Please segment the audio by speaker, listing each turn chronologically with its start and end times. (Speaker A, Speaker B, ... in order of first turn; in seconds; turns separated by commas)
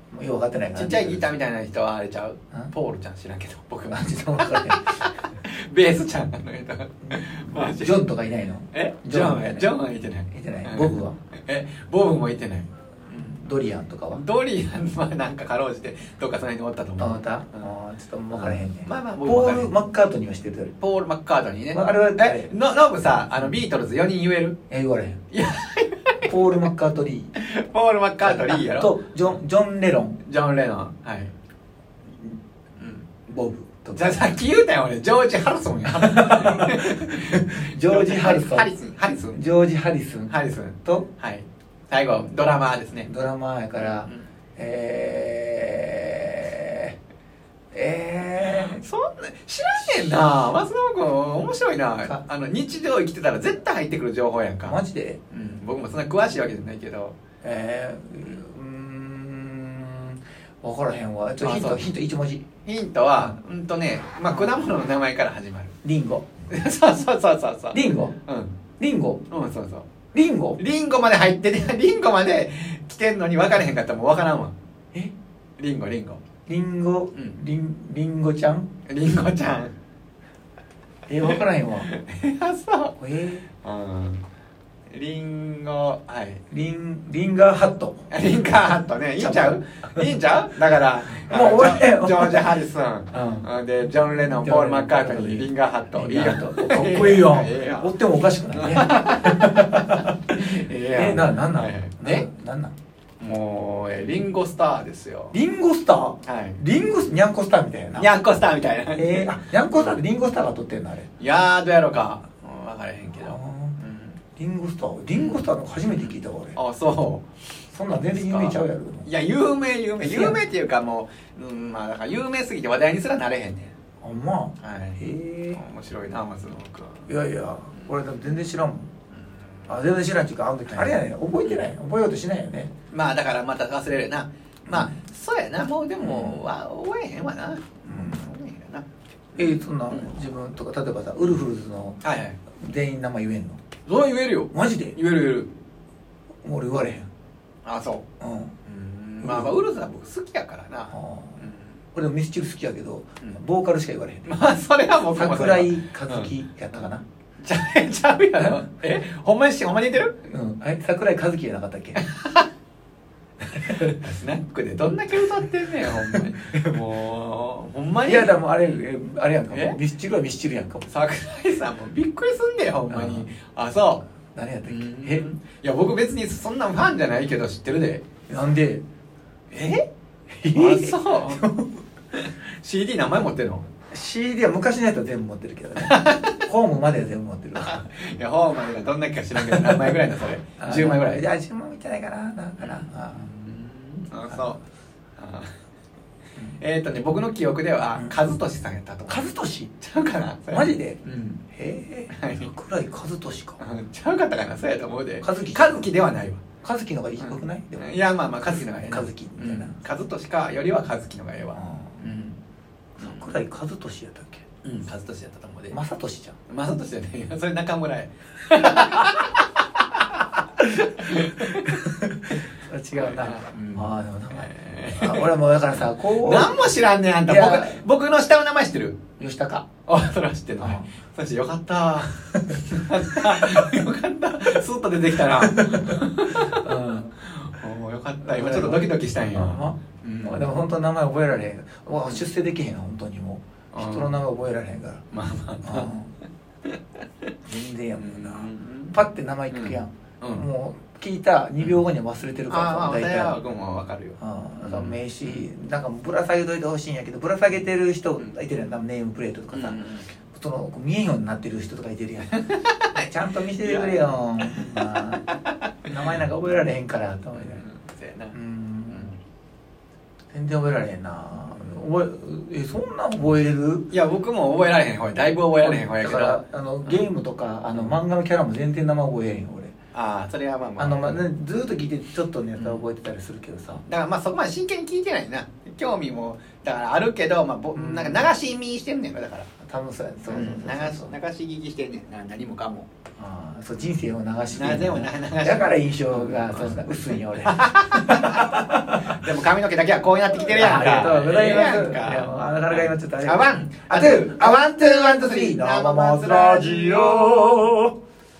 Speaker A: 0.1-1.3, Speaker B: 0.7-8.0, Speaker A: 3.9-4.8, Speaker A: 7.0-9.7, Speaker B: 8.7-13.4, Speaker A: 10.3-11.2, Speaker A: 13.2-14.2, Speaker B: 14.1-17.7, Speaker A: 17.0-20.8, Speaker B: 18.3-19.7, Speaker B: 20.8-24.6, Speaker A: 21.7-22.5, Speaker A: 24.7-25.2, Speaker B: 25.3-26.6, Speaker A: 26.2-27.3, Speaker B: 27.4-29.4, Speaker A: 28.2-30.2, Speaker B: 30.2-31.3, Speaker B: 32.8-33.0, Speaker A: 33.3-34.3, Speaker B: 33.9-39.4, Speaker A: 35.9-38.7, Speaker A: 39.3-40.3, Speaker B: 40.3-43.1, Speaker A: 43.0-46.9, Speaker B: 43.8-44.3, Speaker A: 47.7-48.8, Speaker B: 48.4-54.8, Speaker A: 54.6-55.2, Speaker B: 55.3-57.2, Speaker A: 57.4-62.4, Speaker B: 61.4-61.9, Speaker B: 62.6-65.7, Speaker A: 64.3-64.5, Speaker A: 65.8-66.2, Speaker B: 66.5-68.5, Speaker A: 67.7-68.1, Speaker A: 68.8-69.2, Speaker B: 69.3-69.9, Speaker A: 70.1-70.6, Speaker B: 70.6-74.5, Speaker B: 75.6-76.2, Speaker A: 76.5-78.7, Speaker B: 78.9-79.7, Speaker A: 81.1-81.9, Speaker B: 81.2-82.9, Speaker A: 83.0-83.4, Speaker B: 83.6-84.2, Speaker B: 84.9-86.4, Speaker A: 86.5-88.1, Speaker B: 88.1-97.9, Speaker A: 89.2-90.1, Speaker A: 91.2-92.5, Speaker A: 93.1-102.7, Speaker B: 98.5-102.2, Speaker B: 103.2-105.4, Speaker A: 105.3-108.1, Speaker B: 106.2-106.6, Speaker B: 108.0-110.0, Speaker A: 108.9-111.1, Speaker B: 111.2-114.2, Speaker A: 113.1-113.8, Speaker A: 114.3-116.6, Speaker B: 115.1-117.2, Speaker A: 117.7-119.1, Speaker B: 118.1-123.7, Speaker A: 120.0-120.4, Speaker A: 124.0-125.6, Speaker B: 124.6-125.0, Speaker B: 125.5-127.1, Speaker A: 127.1-128.9, Speaker B: 129.2-129.8, Speaker A: 129.7-132.7, Speaker B: 130.7-131.6, Speaker B: 132.9-138.8, Speaker A: 134.7-134.9, Speaker A: 136.0-136.4, Speaker A: 137.9-138.2, Speaker B: 139.3-140.1, Speaker A: 139.3-142.0, Speaker B: 142.0-142.4, Speaker A: 142.5-143.6, Speaker B: 143.8-145.5, Speaker A: 144.5-144.9, Speaker A: 146.4-147.1, Speaker B: 147.6-148.0, Speaker A: 148.2-148.5, Speaker B: 148.6-151.7, Speaker A: 149.2-149.6, Speaker A: 150.9-151.4, Speaker A: 151.9-154.3, Speaker B: 154.2-156.8, Speaker A: 155.1-157.0, Speaker B: 157.4-160.1, Speaker A: 160.2-162.0, Speaker B: 162.0-162.5, Speaker A: 163.5-164.0, Speaker B: 163.8-168.4, Speaker A: 165.9-166.8, Speaker A: 168.0-170.9, Speaker B: 169.5-169.8, Speaker B: 170.8-174.0, Speaker A: 172.9-173.3, Speaker A: 174.3-175.3, Speaker B: 174.6-178.0, Speaker A: 178.3-178.8, Speaker B: 179.5-179.9, Speaker A: 180.4-181.8, Speaker B: 180.5-181.4, Speaker B: 182.1-183.7, Speaker A: 183.9-187.8, Speaker B: 185.8-186.3, Speaker B: 187.6-191.2, Speaker A: 189.4-190.0, Speaker A: 190.6-193.3, Speaker B: 192.6-194.6, Speaker B: 195.2-195.5, Speaker B: 196.6-199.3, Speaker A: 199.1-199.8, Speaker B: 199.8-201.4, Speaker A: 200.5-203.6, Speaker B: 202.1-202.5, Speaker B: 203.6-206.4, Speaker A: 205.2-205.9, Speaker A: 206.6-207.9, Speaker B: 207.2-212.4, Speaker A: 208.4-209.8, Speaker A: 211.5-212.0, Speaker A: 213.0-214.4, Speaker B: 213.0-213.3, Speaker B: 214.6-215.8, Speaker A: 215.7-216.3, Speaker B: 216.5-221.9, Speaker A: 218.6-219.0, Speaker A: 221.5-226.6, Speaker B: 223.0-229.3, Speaker A: 227.2-227.8, Speaker A: 229.2-229.7, Speaker B: 229.8-236.6, Speaker A: 230.6-230.9, Speaker A: 232.4-233.7, Speaker A: 235.3-237.1, Speaker B: 237.2-240.5, Speaker A: 238.2-245.0, Speaker B: 243.7-244.2, Speaker B: 245.1-245.9, Speaker A: 245.6-246.1, Speaker A: 247.4-253.4, Speaker B: 248.0-249.0, Speaker B: 249.5-250.5, Speaker B: 252.5-255.5, Speaker A: 254.2-259.8, Speaker B: 259.5-260.1, Speaker A: 260.3-262.3, Speaker B: 262.3-266.2, Speaker A: 262.9-265.2, Speaker A: 265.8-267.6, Speaker B: 267.3-268.4, Speaker A: 268.3-269.1, Speaker B: 268.9-269.2, Speaker A: 270.3-273.9, Speaker B: 271.5-271.8, Speaker B: 273.9-277.0, Speaker A: 275.6-279.7, Speaker B: 279.9-281.2, Speaker A: 280.8-283.8, Speaker B: 282.6-282.9, Speaker B: 283.9-289.5, Speaker A: 287.7-288.3, Speaker A: 289.6-291.1, Speaker B: 290.3-292.9, Speaker A: 293.2-299.3, Speaker B: 294.5-307.3, Speaker A: 300.4-307.9